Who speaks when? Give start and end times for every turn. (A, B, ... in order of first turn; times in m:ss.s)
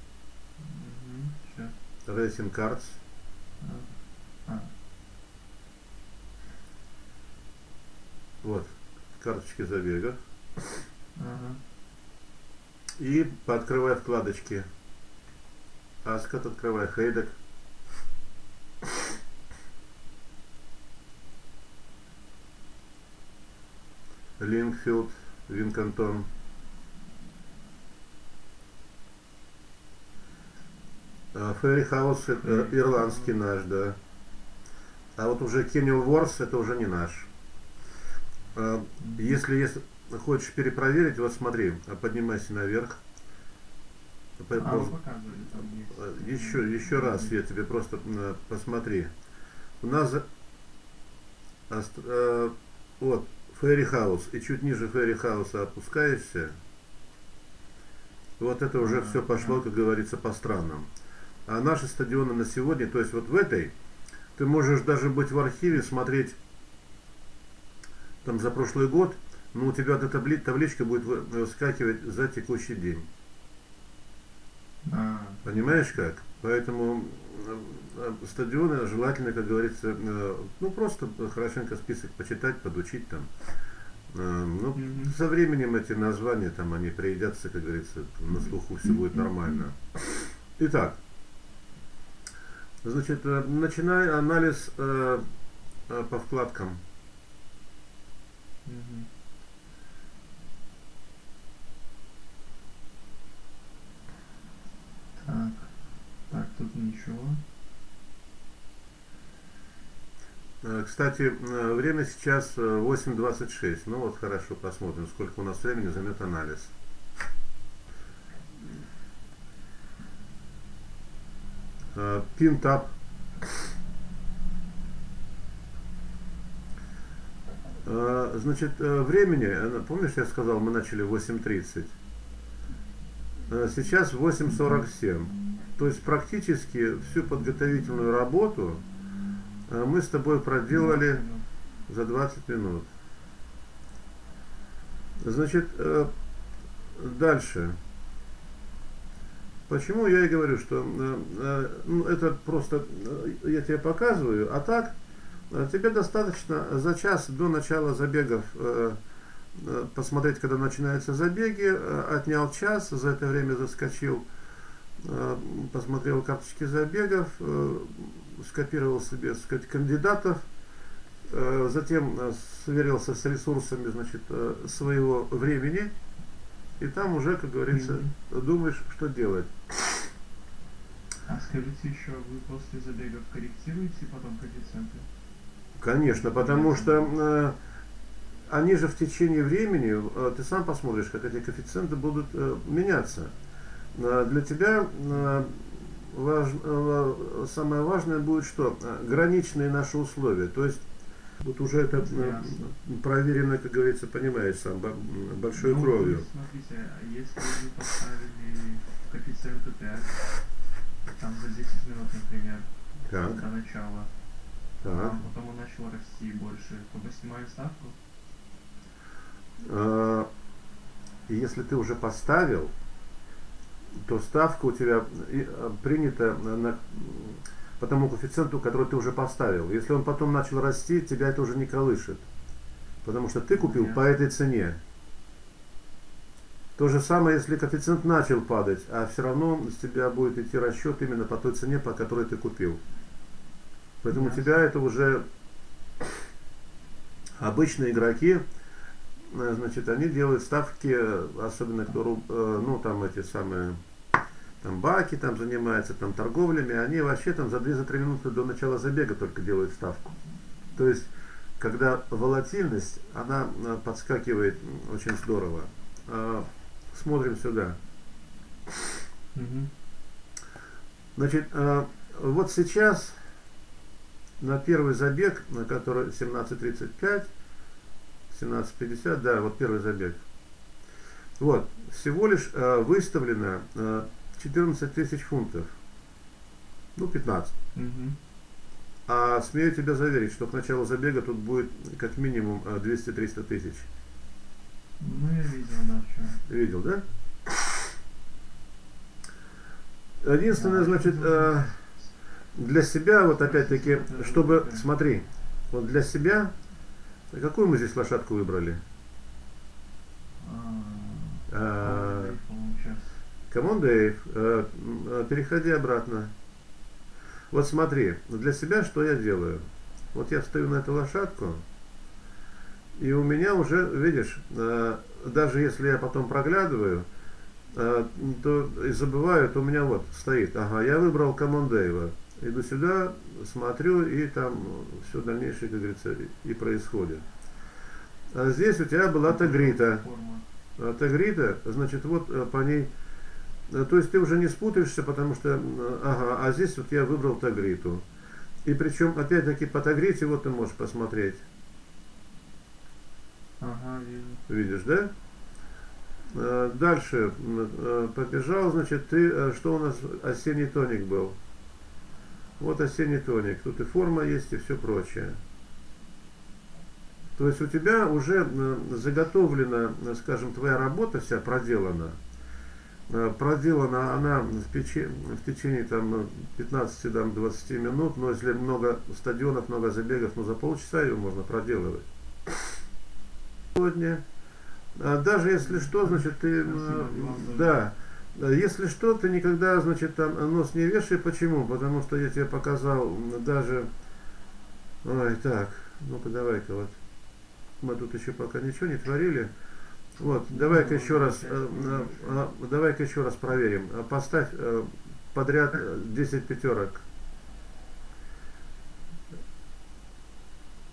0:00.6-0:01.7 A
0:02.1-0:03.0 B
0:03.6-0:04.0 A
0:04.5-0:04.7 A
0:08.4-0:10.2 B
0:11.2-0:11.6 A
0:13.0-0:14.6 B
0:16.0-0:17.4 B
0:24.4-0:26.3 B
0:31.3-0:34.0 B
0:32.4-0:33.3 A
0:35.2-0:37.3 B
0:38.5-0:43.0 B
0:39.0-0:39.3 A
0:44.4-0:49.1 B
0:44.6-0:47.4 A
0:49.8-0:50.2 B
0:51.7-0:56.5 B
0:58.4-1:00.9 B
0:58.8-0:59.6 A
1:01.5-1:03.7 B
1:04.4-1:06.4 B
1:08.2-1:13.1 B
1:14.8-1:15.6 A
1:15.4-1:23.3 B
1:24.1-1:31.0 B
1:24.7-1:25.2 A
1:32.8-1:35.2 B
1:35.9-1:36.8 B
1:38.6-1:39.1 A
1:45.2-1:45.8 A
1:46.3-1:47.4 A
1:50.6-1:56.7 B
2:02.0-2:02.9 B
2:07.8-2:12.0 B
2:13.5-2:18.8 B
2:19.7-2:21.2 B
2:20.7-2:21.5 A
2:21.9-2:22.9 B
2:25.2-2:26.1 B
2:27.0-2:27.8 B
2:29.7-2:35.0 B
2:35.5-2:39.0 B
2:39.5-2:44.3 B
2:45.0-2:50.4 B
2:51.3-2:55.9 B
2:56.8-3:00.1 B
2:57.7-2:58.1 A
3:01.3-3:05.1 A
3:05.8-3:07.6 B
3:06.0-3:07.1 A
3:08.5-3:13.3 B
3:13.9-3:20.8 B
3:21.4-3:26.3 B
3:22.0-3:22.7 A
3:25.5-3:30.2 A
3:31.0-3:34.1 A
3:33.1-3:33.4 B
3:34.8-3:35.2 B
3:34.9-3:38.0 A
3:39.6-3:40.3 B
3:41.3-3:42.7 B
3:44.0-3:52.2 B
3:53.0-3:54.8 B
3:53.5-3:54.0 A
3:56.8-4:02.8 B
4:04.0-4:05.2 B
4:04.1-4:04.6 A
4:07.4-4:08.4 B
4:09.2-4:13.8 B
4:14.6-4:20.2 B
4:20.8-4:27.8 B
4:29.3-4:29.7 A
4:31.2-4:33.2 B
4:34.4-4:37.3 B
4:38.3-4:40.2 B
4:41.4-4:45.8 B
4:47.0-4:47.5 B
4:47.8-4:48.2 A
4:49.1-4:53.9 B
4:55.0-4:56.4 A
4:56.5-4:57.0 B
5:00.2-5:01.8 B
5:00.5-5:02.1 A
5:02.5-5:06.5 B
5:03.4-5:04.9 A
5:07.3-5:08.8 B
5:10.4-5:13.2 A
5:11.5-5:12.4 B
5:13.5-5:16.3 B
5:17.5-5:21.6 B
5:23.0-5:27.1 B
5:27.7-5:37.3 B
5:38.3-5:40.0 B
5:39.3-5:40.5 A
5:40.8-5:42.9 B
5:43.7-5:48.1 B
5:48.6-5:51.4 B
5:53.6-5:54.4 A
5:54.5-5:55.1 B
5:56.3-6:01.4 B
6:02.6-6:05.4 B
6:07.4-6:12.2 B
6:13.1-6:22.8 B
6:23.7-6:24.2 B
6:25.0-6:33.9 B
6:25.6-6:27.8 A
6:35.0-6:37.0 B
6:37.8-6:39.5 B
6:40.2-6:47.0 B
6:40.4-6:42.4 A